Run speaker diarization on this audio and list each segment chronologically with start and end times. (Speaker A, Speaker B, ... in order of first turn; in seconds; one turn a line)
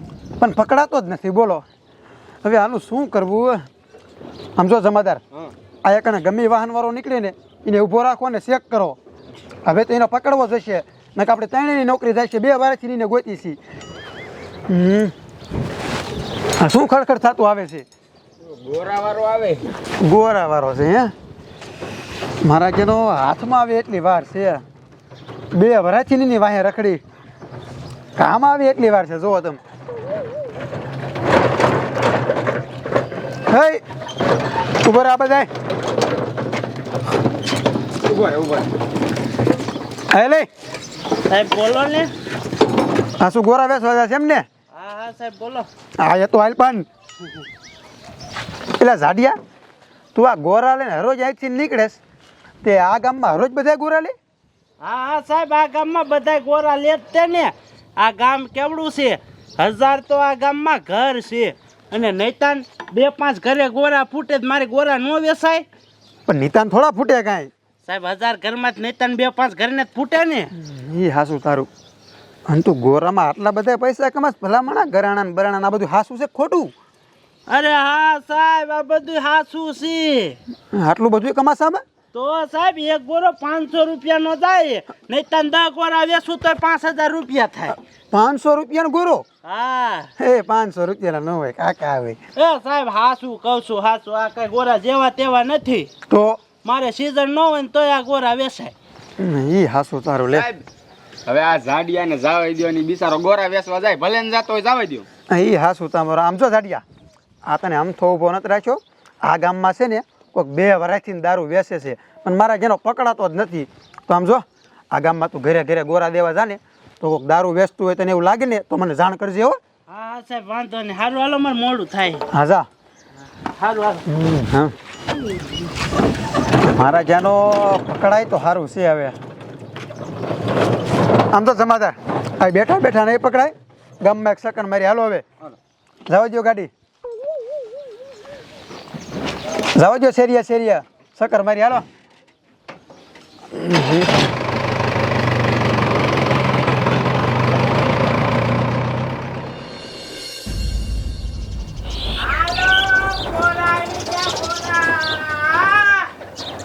Speaker A: 0.4-1.6
Speaker A: 2.4-3.6
Speaker A: 4.6-5.2
Speaker A: 5.8-9.0
Speaker A: 9.7-13.6
Speaker A: 14.7-15.1
Speaker A: 16.6-17.9
Speaker B: 18.5-19.6
Speaker A: 20.0-21.1
Speaker A: 22.4-24.6
Speaker A: 25.5-27.0
Speaker A: 28.2-29.6
Speaker A: 33.5-33.8
Speaker A: 34.8-35.5
Speaker B: 38.1-38.7
Speaker A: 40.1-40.5
Speaker C: 41.3-42.1
Speaker A: 43.2-44.5
Speaker C: 44.8-45.7
Speaker A: 46.0-46.9
Speaker A: 48.8-49.4
Speaker A: 50.1-52.0
Speaker A: 52.6-54.1
Speaker C: 54.8-65.7
Speaker A: 66.3-67.5
Speaker C: 67.9-70.5
Speaker A: 70.5-71.7
Speaker A: 72.5-76.7
Speaker C: 77.5-80.3
Speaker A: 80.7-81.8
Speaker C: 82.1-87.8
Speaker A: 88.1-89.2
Speaker C: 89.5-90.1
Speaker A: 90.2-92.2
Speaker C: 92.4-95.9
Speaker A: 96.1-96.4
Speaker C: 96.6-98.7
Speaker A: 99.2-100.5
Speaker B: 100.4-100.6
Speaker B: 101.3-105.1
Speaker A: 105.3-106.8
Speaker A: 107.5-119.6
Speaker C: 119.9-122.2
Speaker A: 122.3-122.7
Speaker C: 123.6-124.0
Speaker A: 124.1-124.7
Speaker A: 126.6-129.2
Speaker A: 131.3-135.2
Speaker A: 136.1-136.7
Speaker A: 139.8-141.8
Speaker A: 143.5-144.1
Speaker C: 152.2-156.1